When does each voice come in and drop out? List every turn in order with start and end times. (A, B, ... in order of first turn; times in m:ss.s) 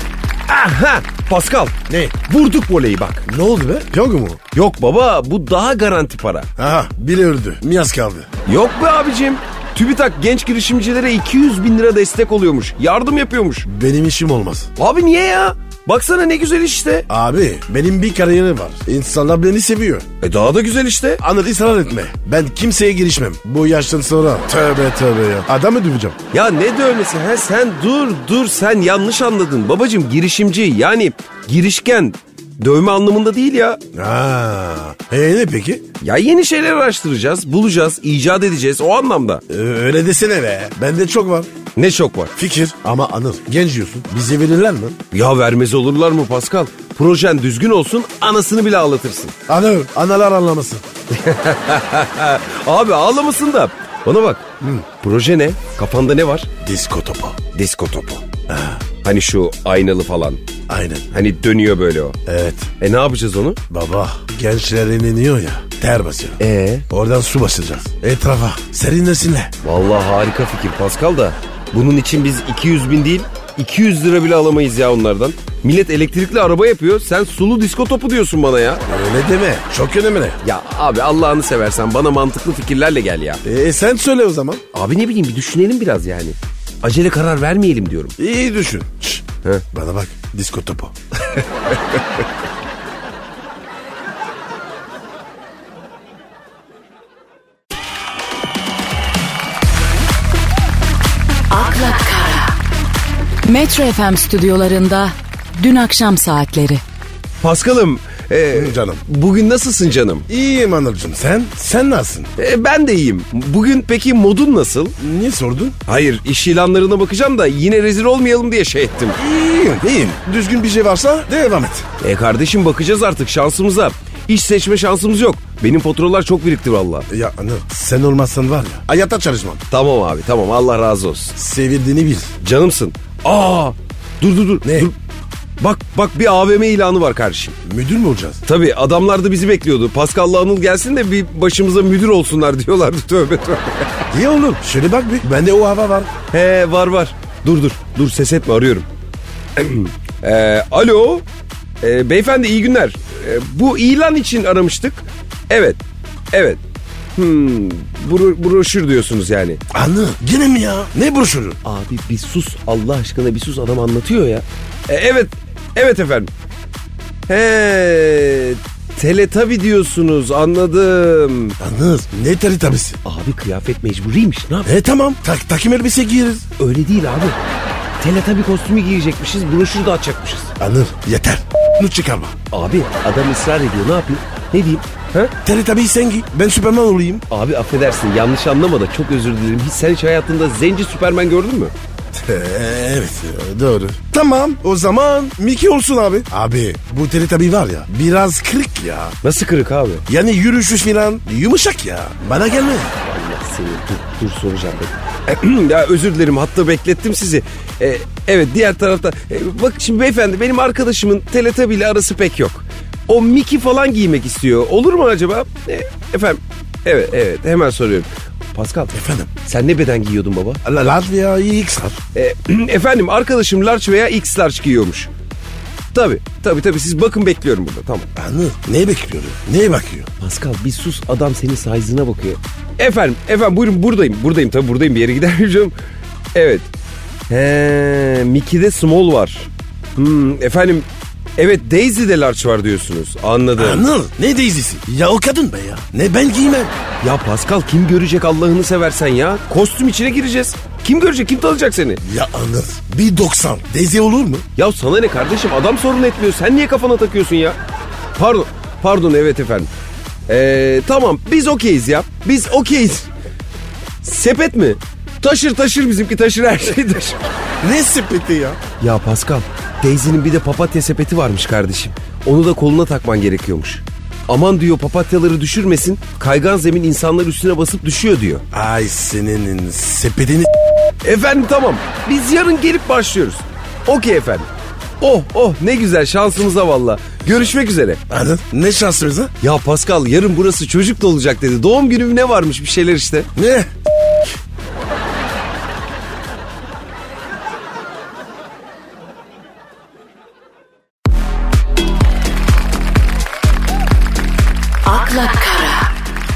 0:00.5-0:03.3 A
0:01.9-0:02.2 B
0:03.3-0:04.4 B
0:04.5-0:06.5 A
0:06.6-0:08.3 B
0:08.5-0:13.7 A
0:13.7-0:14.7 B
0:14.8-0:17.1 A
0:17.1-0:20.1 B
0:20.2-0:21.2 A
0:21.2-0:26.2 B
0:26.3-0:33.8 A
0:33.9-0:35.8 B
0:36.0-0:39.4 A
0:39.5-0:41.5 B
0:41.8-0:42.3 A
0:42.4-0:45.0 B
0:45.1-0:49.3 A
0:49.5-0:50.8 B
0:51.1-0:54.5 A
0:54.6-0:54.9 B
0:55.0-0:56.5 A
0:56.6-0:57.4 B
0:57.5-0:58.2 A
0:58.5-0:58.8 B
0:59.0-1:00.4 A
1:00.7-1:01.1 B
1:01.1-1:02.2 A
1:02.3-1:02.7 B
1:02.8-1:03.6 A
1:03.7-1:09.5 B
1:06.4-1:06.9 A
1:09.6-1:18.8 A
1:18.9-1:20.4 B
1:20.4-1:23.4 A
1:23.4-1:24.6 B
1:24.7-1:28.2 A
1:28.2-1:31.4 B
1:41.5-1:42.6 C
1:43.4-1:46.8 C
1:47.4-1:50.3 A
1:48.5-1:49.0 B
1:50.3-1:52.3 B
1:52.4-1:55.0 A
1:55.0-1:55.8 B
1:55.9-1:59.2 A
1:59.2-2:01.9 B
2:02.0-2:07.1 A
2:07.1-2:09.6 B
2:09.7-2:11.4 A
2:11.4-2:12.4 B
2:12.4-2:15.0 A
2:14.6-2:14.9 B
2:15.6-2:17.6 A
2:17.6-2:18.4 B
2:18.5-2:24.0 A
2:24.1-2:26.1 B
2:26.3-2:28.9 A
2:29.6-2:31.3 A
2:31.8-2:35.8 A
2:36.3-2:36.6 A
2:37.2-2:39.6 A
2:39.7-2:41.6 B
2:41.6-2:46.3 A
2:47.3-2:51.6 A
2:51.6-2:53.0 B
2:53.0-2:54.7 A
2:54.6-2:56.5 B
2:56.6-2:57.4 A
2:58.0-3:00.5 A
3:00.6-3:02.4 B
3:02.5-3:05.3 A
3:05.4-3:07.2 B
3:07.3-3:11.7 A
3:12.1-3:19.2 B
3:19.2-3:20.0 A
3:20.1-3:22.9 B
3:23.0-3:40.6 A
3:38.9-3:39.3 B
3:40.6-3:42.0 B
3:42.1-3:45.1 A
3:45.9-3:48.1 A
3:48.2-3:50.1 B
3:50.2-3:55.7 A
3:56.4-3:56.7 A
3:57.3-4:03.8 A
4:03.6-4:06.7 B
4:07.0-4:12.0 A
4:12.0-4:14.4 B
4:14.6-4:17.6 A
4:18.2-4:19.7 A
4:20.3-4:23.1 A
4:24.0-4:27.3 A
4:27.6-4:28.6 B
4:28.8-4:38.4 A
4:38.5-4:40.5 B
4:41.0-4:44.5 A
4:45.0-4:48.0 A
4:48.1-4:49.3 B
4:49.4-4:53.3 A
4:53.4-4:53.7 B
5:04.8-5:05.9 C